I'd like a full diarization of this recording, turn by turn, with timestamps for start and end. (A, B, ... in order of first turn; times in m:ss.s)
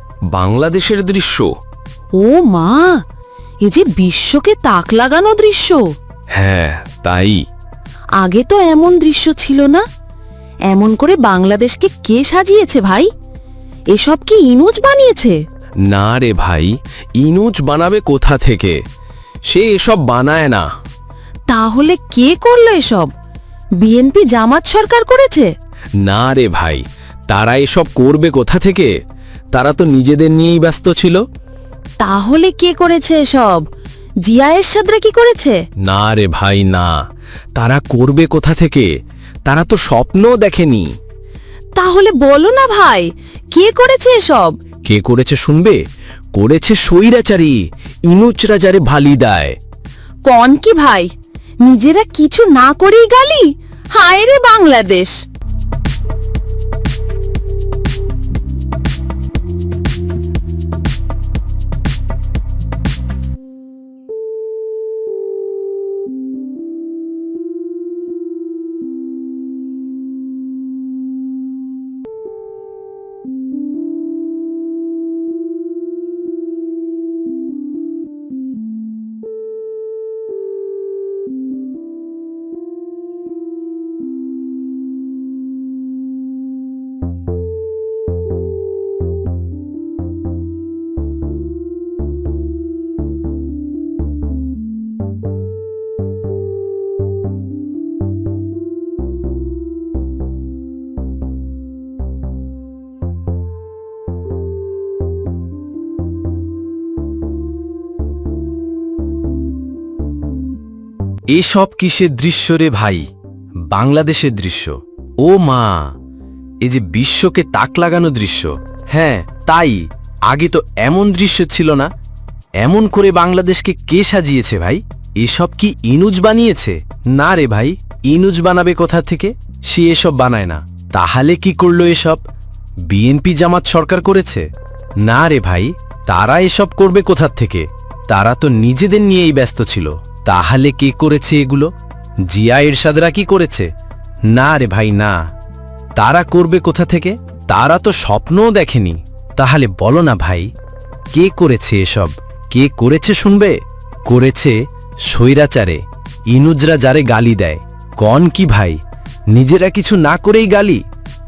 0:00.4-0:01.5 A
0:02.2-0:03.0 B
0:03.6-0:05.9 B
0:06.4-0:07.3 A
0:08.2-0:09.8 B
0:10.7-0:13.1 B
0:13.9-0:15.4 B
0:15.9-0:18.7 A
0:19.5-0:20.6 A
0:21.5-0:23.1 B
0:23.8-0:25.5 B
0:26.0-0:28.9 A
0:29.6-0:31.2 A
0:32.0-0:33.6 B
0:34.2-0:35.6 B
0:35.8-0:36.9 A
0:37.6-0:38.8 A
0:39.5-0:40.9 A
0:41.7-0:44.5 B
0:44.9-0:45.8 A
0:46.4-0:47.6 A
0:48.1-0:49.5 A
0:50.2-0:51.1 B
0:51.6-0:55.2 B
1:51.3-1:53.0 A
1:53.7-1:55.9 A
1:56.6-2:01.9 A
2:02.6-2:12.2 A
2:12.9-2:14.5 A
2:15.0-2:21.7 A
2:22.3-2:23.7 A
2:24.3-2:25.2 A
2:26.0-2:30.5 A
2:31.1-2:33.6 A
2:34.1-2:38.8 A
2:39.3-2:40.8 A